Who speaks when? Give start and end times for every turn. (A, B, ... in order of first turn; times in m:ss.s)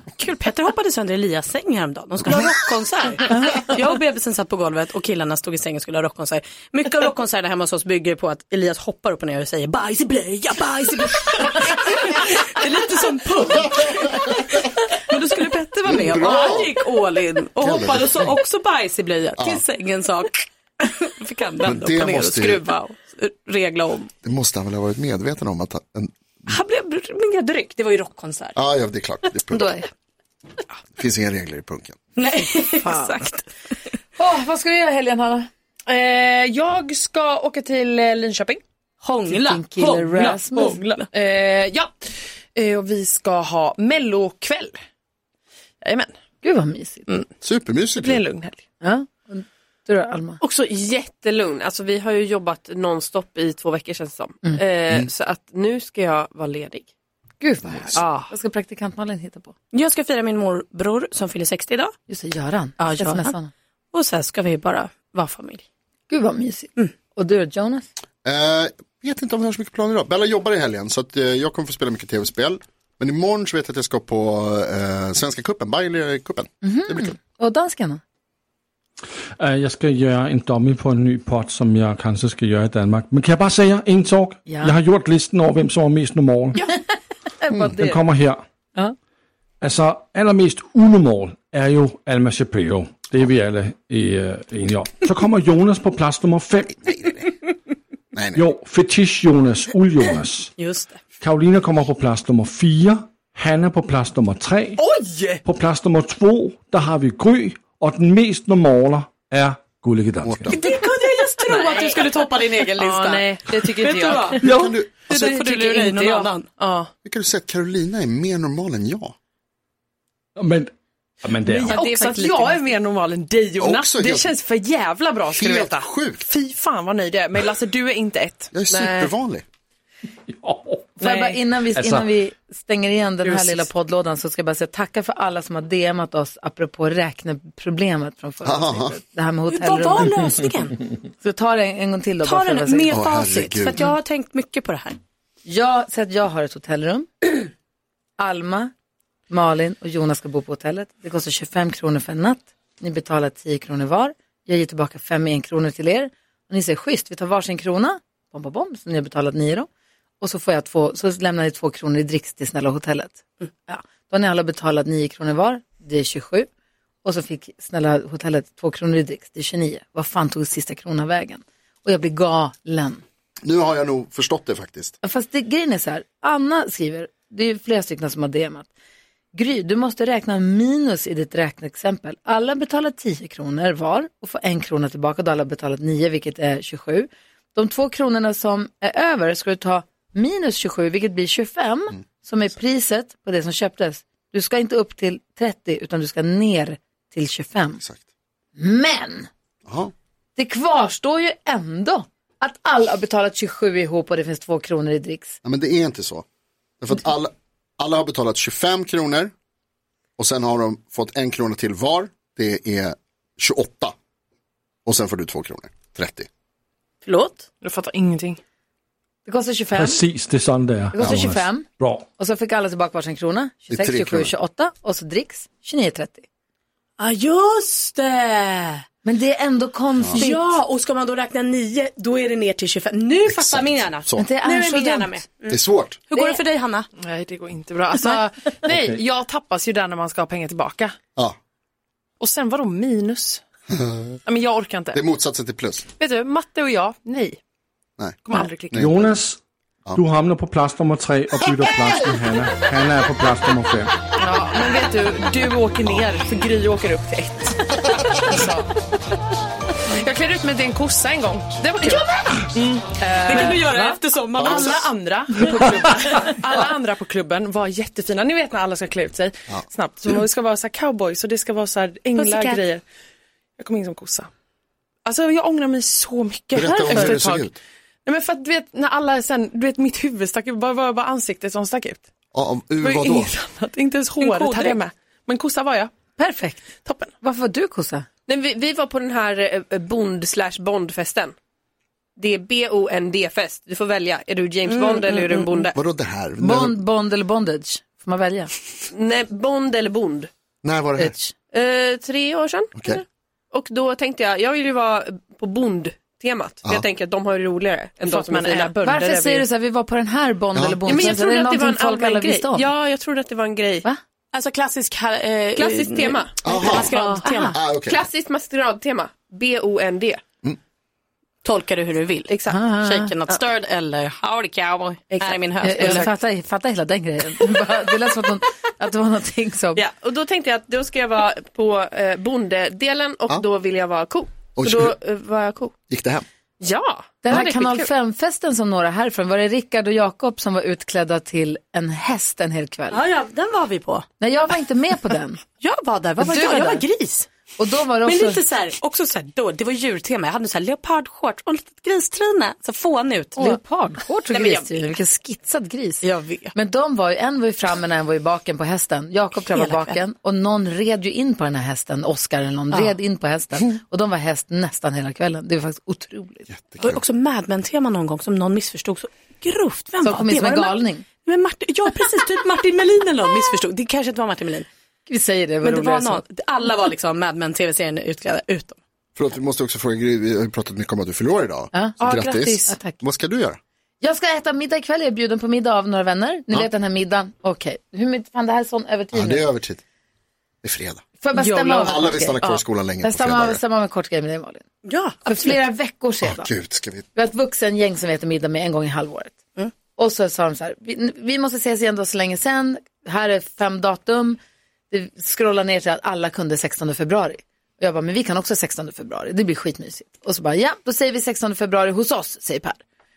0:00.2-0:24.1 A
0:15.8-0:16.8 B
0:17.6-0:18.3 B
0:19.4-0:19.6 B
0:21.6-0:22.6 B
0:24.2-0:26.5 B
0:26.5-0:28.6 A
0:28.6-0:29.8 B
0:29.5-0:29.9 C
0:31.0-0:32.0 B
0:32.2-0:33.5 A
0:32.6-0:33.2 C
0:34.2-0:35.5 C
0:35.9-0:38.6 D
0:39.0-0:41.1 A
0:39.3-0:40.8 C
0:40.2-0:44.8 D
0:45.8-0:46.1 D
0:46.4-0:47.1 C
0:47.4-0:48.2 B
0:48.0-0:48.6 D
0:48.8-0:50.4 C
0:50.4-0:56.9 E
0:57.4-0:59.5 C
0:57.7-0:58.0 B
0:59.7-1:01.9 A
1:02.1-1:03.5 C
1:02.8-1:03.3 A
1:03.9-1:05.6 A
1:06.1-1:07.9 C
1:08.2-1:17.2 B
1:16.6-1:18.0 C
1:19.4-1:26.6 F
1:24.5-1:24.8 C
1:27.5-1:28.0 C
1:27.6-1:28.4 F
1:29.6-1:36.9 F
1:38.1-1:38.4 B
1:38.4-1:40.5 F
1:40.6-1:41.0 A
1:41.2-1:44.8 F
1:44.8-1:45.4 D
1:45.4-1:50.6 F
1:50.2-1:50.5 B
1:50.5-1:56.5 A
1:51.4-1:52.1 D
1:52.7-1:54.6 D
1:54.4-1:54.8 F
1:54.5-1:55.1 B
1:55.1-1:56.9 D
1:57.0-1:59.1 B
2:00.4-2:00.7 F
2:01.2-2:01.8 F
2:01.4-2:09.1 D
2:01.7-2:02.6 A
2:03.6-2:04.3 B
2:05.3-2:06.2 B
2:08.5-2:09.4 B
2:10.4-2:10.9 F
2:11.0-2:20.3 C
2:11.0-2:11.4 D
2:11.8-2:12.1 F
2:13.2-2:13.6 D
2:18.4-2:19.0 B
2:19.5-2:20.8 A
2:21.2-2:22.9 C
2:22.2-2:25.0 A
2:22.9-2:23.9 B
2:25.4-2:27.4 C
2:28.2-2:28.7 C
2:29.3-2:39.7 C
2:40.2-2:46.5 C
2:47.0-2:53.0 C
2:53.4-2:54.9 B
2:55.0-2:58.7 C
2:59.3-3:17.8 C
3:18.6-3:19.3 C
3:19.6-3:19.9 B
3:20.4-3:25.4 C
3:25.4-3:26.2 B
3:26.8-3:29.3 B
3:30.2-3:33.9 B
3:34.8-3:36.3 B
3:37.0-3:37.5 A
3:37.6-3:38.4 D
3:39.3-3:40.0 C
3:39.8-3:42.1 F
3:40.9-3:41.6 C
3:42.2-3:46.2 C
3:43.7-3:44.3 B
3:47.0-3:48.8 A
3:49.0-3:50.6 C
3:50.1-3:56.9 A
3:53.3-3:54.3 B
3:54.2-3:55.2 C
3:55.5-3:56.0 B
3:57.0-4:01.0 D
3:58.7-3:59.0 F
4:02.2-4:03.4 D
4:03.7-4:04.2 B
4:04.3-4:05.0 D
4:04.9-4:05.9 B
4:06.0-4:07.4 D
4:08.2-4:09.0 D
4:08.7-4:09.1 B
4:08.8-4:09.4 F
4:09.9-4:14.0 F
4:14.2-4:18.7 D
4:19.9-4:32.8 D
4:23.3-4:24.9 A
4:24.4-4:24.8 B
4:32.1-4:32.6 A
4:33.6-4:34.3 D
4:35.0-4:37.5 D
4:36.5-4:37.5 B
4:36.8-4:37.1 C
4:38.0-4:42.0 D
4:42.3-4:43.3 B
4:42.8-4:45.9 D
4:44.2-4:44.8 A
4:46.2-4:46.6 C
4:47.2-4:48.1 C
4:48.3-4:51.4 E
4:52.2-4:55.8 E
4:54.6-4:55.7 A
4:55.8-4:56.8 B
4:56.4-4:58.5 C
4:58.9-5:00.3 E
5:00.6-5:01.1 B
5:01.0-5:01.3 C
5:01.5-5:09.4 E
5:02.8-5:03.0 B
5:08.0-5:08.8 D
5:08.8-5:12.7 C
5:10.6-5:11.1 B
5:10.9-5:13.9 E
5:14.3-5:17.6 A
5:15.6-5:17.3 E
5:16.4-5:16.9 B
5:16.9-5:17.6 C
5:17.5-5:18.1 B
5:17.9-5:20.2 E
5:21.4-5:26.1 A
5:22.3-5:22.6 E
5:22.5-5:23.1 C
5:25.1-5:26.1 E
5:25.6-5:29.8 C
5:29.8-5:35.8 E
5:34.6-5:34.9 B
5:35.9-5:36.3 B
5:36.6-5:37.9 E
5:37.2-5:43.0 C
5:42.9-5:44.1 A
5:44.2-5:45.4 C
5:45.6-5:47.3 A
5:46.2-5:46.8 C
5:47.6-5:48.4 C
5:48.0-5:53.6 A
5:53.4-6:06.5 C
5:56.0-5:56.5 A
5:59.5-6:00.0 A
6:06.5-6:07.0 B
6:06.8-6:14.7 A
6:10.0-6:11.0 C
6:15.1-6:16.2 C
6:15.6-6:18.8 A
6:19.2-6:23.6 B
6:21.7-6:23.0 C
6:22.0-6:22.6 D
6:24.0-6:29.4 C
6:29.1-6:29.8 B
6:30.6-6:31.1 B
6:31.2-6:32.4 C
6:31.4-6:32.0 D
6:31.8-6:33.6 B
6:33.0-6:34.6 C
6:34.8-6:35.6 A
6:35.2-6:36.5 C
6:36.2-6:37.1 B
6:37.1-6:39.4 C
6:39.9-6:44.4 C
6:44.9-6:52.8 C